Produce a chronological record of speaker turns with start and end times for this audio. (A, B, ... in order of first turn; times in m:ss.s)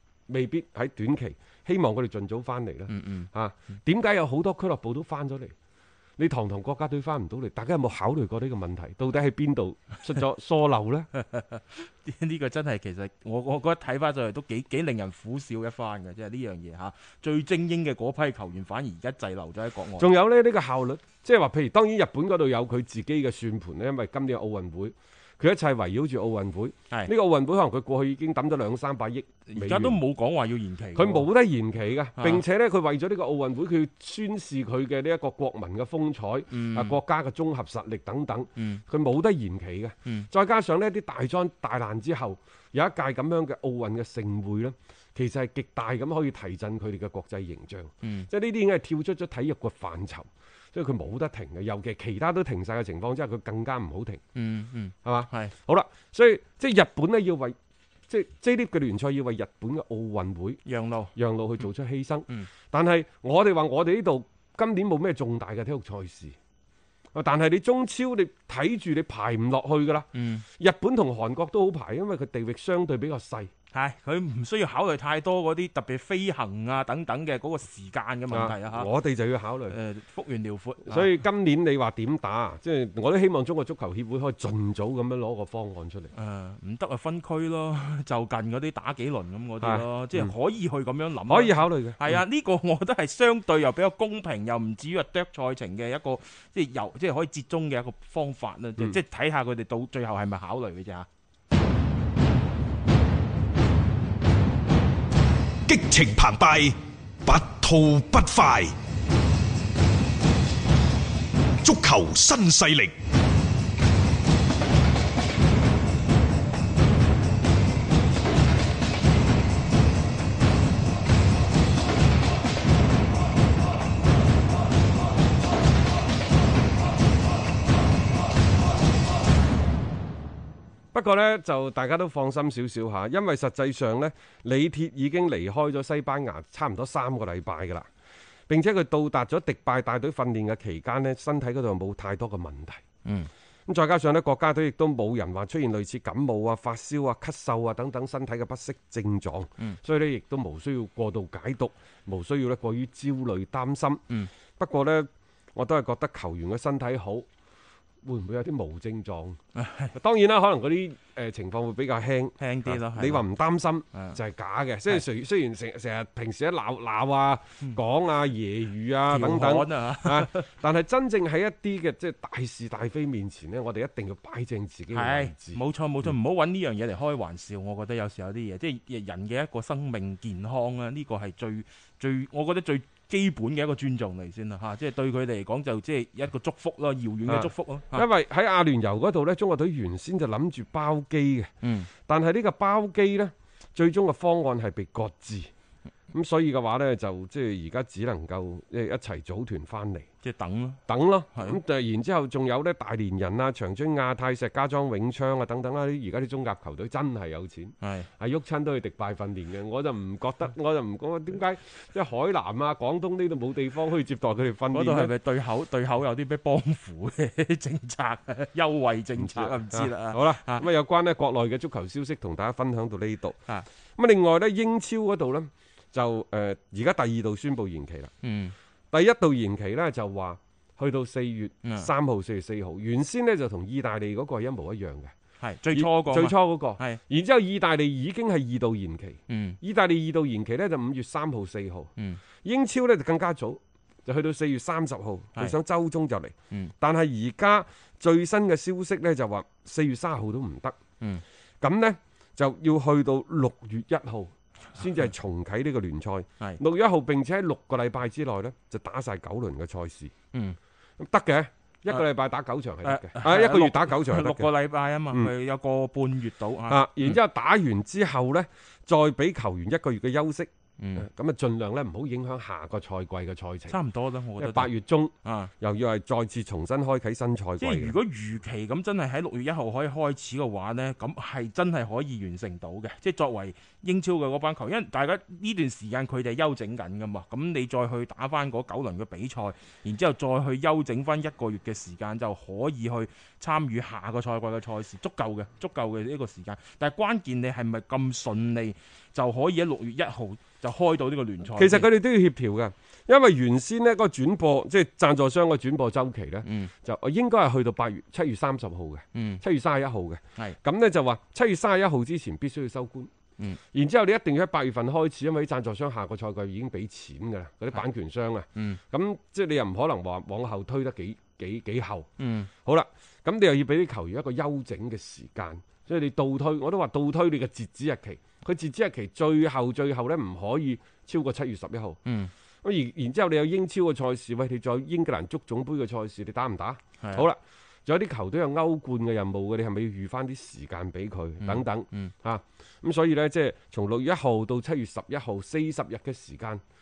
0:00.3-0:05.5 A
0:02.9-0:03.3 B
0:06.2-0:11.1 A
0:11.1-0:20.1 B
0:20.0-0:30.0 A
0:29.5-0:31.3 B
0:30.9-0:54.2 A
0:32.2-0:32.4 B
0:36.5-0:37.0 B
0:38.6-0:38.8 B
0:48.0-0:48.3 B
0:54.3-0:55.5 B
0:55.0-0:57.6 A
0:58.1-1:00.6 A
1:00.6-1:01.1 B
1:01.1-1:06.4 A
1:07.1-1:13.5 A
1:10.1-1:10.4 B
1:13.7-1:18.9 B
1:18.3-1:19.7 A
1:19.7-1:21.2 B
1:20.9-1:26.1 A
1:26.1-1:41.1 B
1:29.6-1:30.3 A
1:31.3-1:32.2 A
1:45.7-1:48.7 C
1:51.6-1:53.0 C
2:10.9-2:17.9 A
2:18.5-2:22.8 A
2:23.0-2:23.3 B
2:23.7-2:34.0 A
2:34.5-2:37.2 A
2:38.0-2:39.4 A
2:39.5-2:39.9 B
2:39.9-2:55.6 A
2:42.4-2:43.2 B
2:49.1-2:50.5 B
2:54.9-3:08.0 B
3:07.3-3:15.5 A
3:11.6-3:11.9 B
3:16.1-3:20.1 A
3:20.2-3:20.8 B
3:20.9-3:35.1 A
3:21.3-3:21.6 B
3:27.8-3:28.1 B
3:34.7-3:40.6 B
3:39.2-3:43.4 A
3:44.0-3:48.1 A
3:48.2-3:48.5 B
3:48.9-3:55.1 A
3:55.4-3:57.0 B
3:55.7-4:01.9 A
3:59.3-3:59.6 B
4:02.4-4:10.8 A
4:11.6-4:20.1 A
4:21.0-4:24.5 A
4:22.8-4:27.2 B
4:26.7-4:33.7 A
4:30.8-4:31.1 B
4:33.7-4:34.7 B
4:34.4-4:38.0 A
4:35.2-4:35.5 B
4:37.6-5:01.9 B
5:01.5-5:13.1 A
5:06.4-5:06.7 B
5:09.1-5:09.4 B
5:13.7-5:32.0 A
5:22.2-5:22.5 B
5:32.0-5:32.3 B
5:32.6-5:46.6 A
5:41.4-5:42.1 B